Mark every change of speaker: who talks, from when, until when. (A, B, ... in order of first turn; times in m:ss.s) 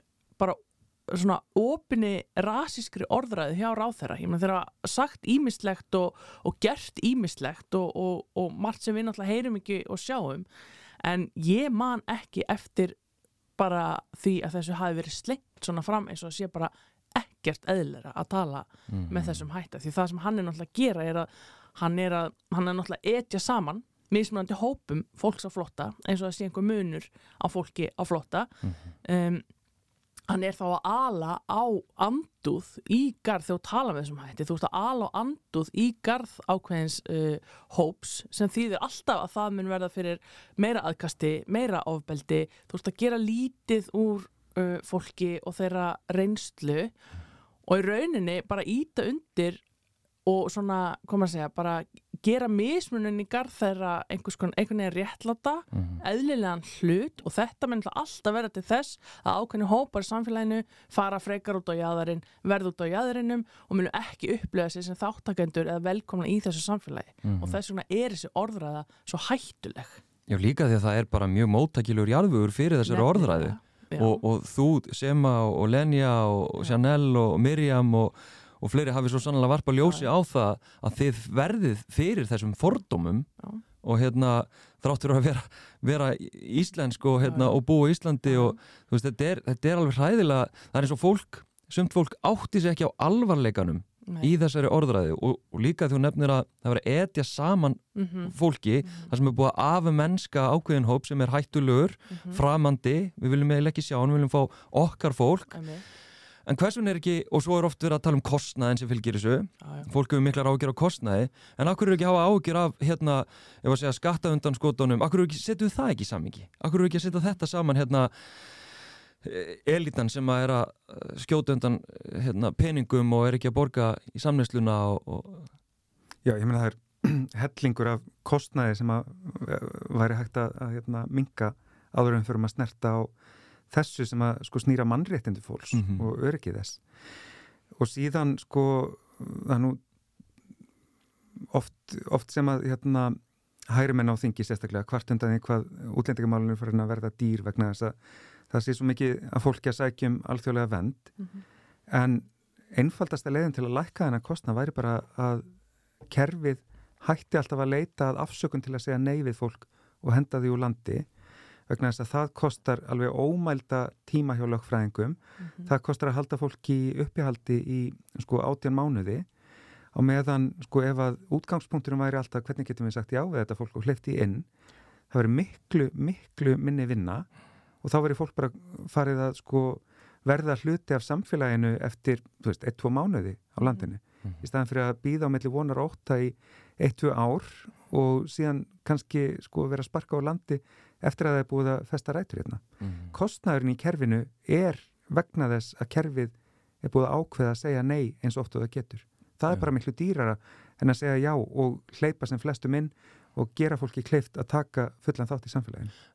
0:00.4-0:10.4 A
0:11.0-0:13.0 A
0:13.6-0:28.5 A
0:18.9-0:19.5 B
0:29.0-0:29.4 A
0:30.3-0:46.9 A
0:47.6-0:49.6 A
0:50.2-1:10.0 A
1:07.2-1:07.6 B
1:10.3-1:23.3 B
1:12.9-1:14.2 A
1:19.8-1:20.1 A
1:23.8-1:45.6 B
1:27.2-1:27.6 A
1:28.2-1:28.6 A
1:34.1-1:34.3 A
1:37.9-1:38.3 A
1:38.8-1:39.1 A
1:42.1-1:42.4 A
1:45.5-1:45.8 A
1:46.4-1:58.1 B
1:49.6-1:49.9 A
1:59.2-2:05.5 B
2:06.2-2:13.1 C
2:13.7-2:16.8 C
2:15.7-2:16.0 B
2:17.8-2:19.8 C
2:21.5-2:28.0 C
2:28.5-2:31.1 C
2:31.9-2:35.4 C
2:36.1-2:41.1 C
2:41.7-2:49.3 C
2:49.9-2:54.5 C
2:55.1-2:57.3 C
2:57.8-3:25.9 C
3:12.8-3:13.1 B